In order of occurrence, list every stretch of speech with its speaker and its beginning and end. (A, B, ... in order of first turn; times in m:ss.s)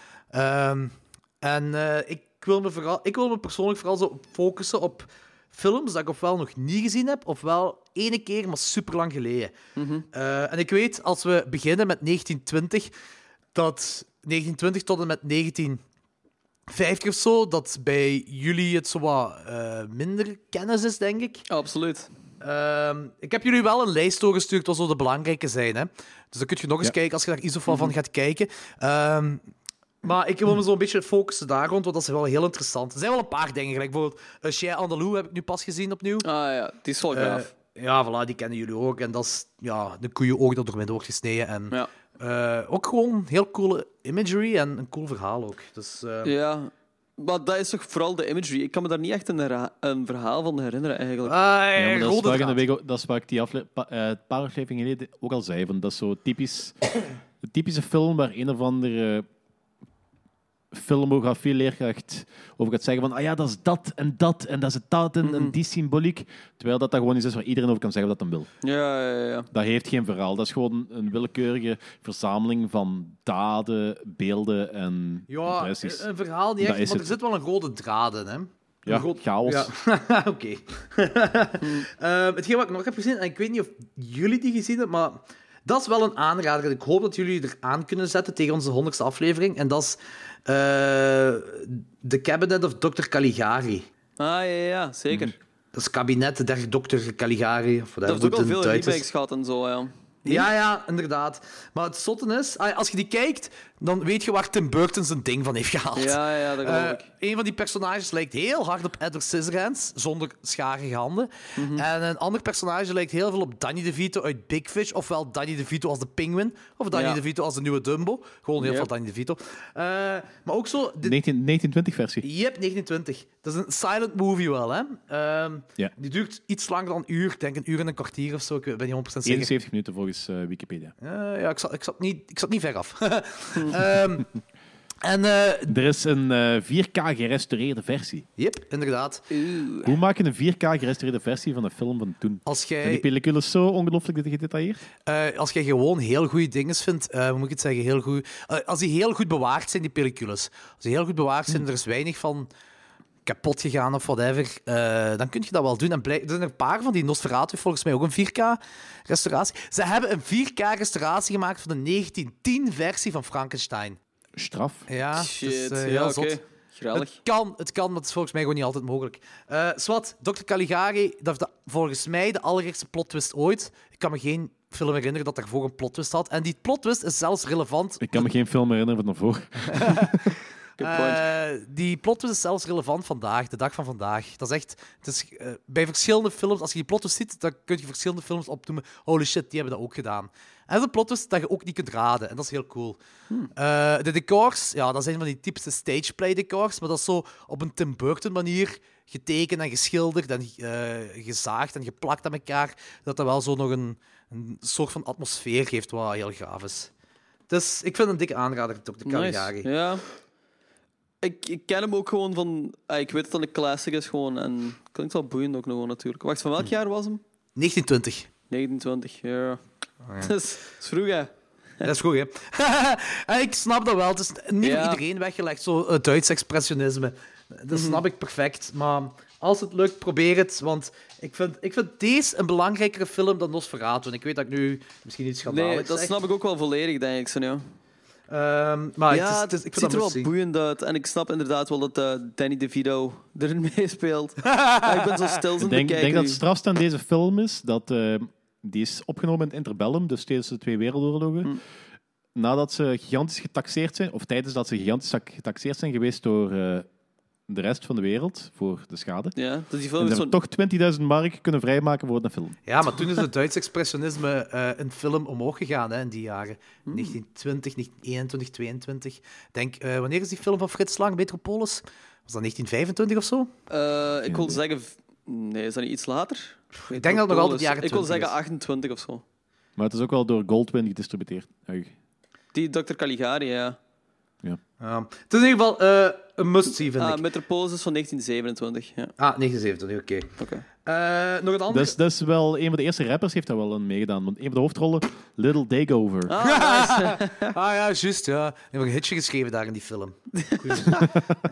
0:00.3-0:09.5 A
0:09.8-0:10.0 B
0:10.1-0:12.9 A
0:13.5-0:15.8 A
0:16.7-0:21.4 A
0:21.5-0:22.1 B
0:22.4-0:29.4 A
0:27.7-0:27.9 B
0:30.0-0:36.2 A
0:36.2-0:37.5 B
0:37.1-0:46.3 A
0:46.2-0:51.4 B
0:51.2-0:52.6 A
0:51.8-0:56.8 C
0:57.4-0:59.2 C
1:00.7-1:08.5 C
1:05.2-1:05.5 B
1:08.6-1:09.5 B
1:09.5-1:16.0 C
1:15.3-1:33.8 A
1:16.6-1:17.1 C
1:18.8-1:19.7 C
1:34.2-1:35.3 B
1:35.7-1:39.0 A
1:38.0-1:40.5 B
1:40.2-2:01.2 A
1:46.0-1:47.0 B
1:51.6-1:51.8 B
1:56.9-1:57.2 B
1:58.6-1:58.9 B
2:01.0-2:02.2 C
2:02.2-2:09.5 A
2:09.2-2:10.9 C
2:11.0-2:14.3 A
2:15.0-2:15.7 A
2:15.7-2:18.3 C
2:18.4-2:19.3 A
2:19.3-2:19.9 B
2:19.8-2:24.8 C
2:22.4-2:23.0 A
2:25.0-2:32.5 A
2:33.2-2:44.0 A
2:44.4-2:44.9 C
2:44.9-2:46.4 A
2:45.1-2:47.1 B
2:46.9-2:58.3 A
2:58.0-3:00.2 C
2:59.7-3:00.2 A
3:00.8-3:01.2 B
3:00.8-3:13.0 A
3:13.6-3:26.9 A
3:27.5-3:29.7 A
3:29.1-3:30.0 B
3:31.2-3:37.2 B
3:37.6-3:38.3 A
3:38.5-3:39.6 B
3:40.0-3:40.3 A
3:40.2-3:41.9 B
3:41.8-3:56.2 A
3:44.6-3:45.0 B
3:47.7-3:48.0 B
3:55.4-3:57.6 B
3:58.3-4:00.3 A
3:59.1-4:06.4 B
4:04.4-4:05.3 A
4:05.6-4:11.5 C
4:12.3-4:16.9 C
4:17.5-4:19.3 C
4:19.4-4:20.3 B
4:20.0-4:22.6 C
4:22.7-4:33.5 A
4:26.9-4:27.2 B
4:33.7-4:39.2 B
4:34.3-4:34.6 C
4:36.7-4:38.3 A
4:39.8-4:41.9 C
4:42.5-4:43.8 B
4:44.8-4:47.2 A
4:47.0-4:49.1 B
4:49.2-4:50.3 A
4:50.4-4:50.6 B
4:50.8-4:52.0 A
4:51.7-4:56.4 C
4:56.3-4:57.5 B
4:56.4-5:01.1 A
5:00.4-5:01.1 B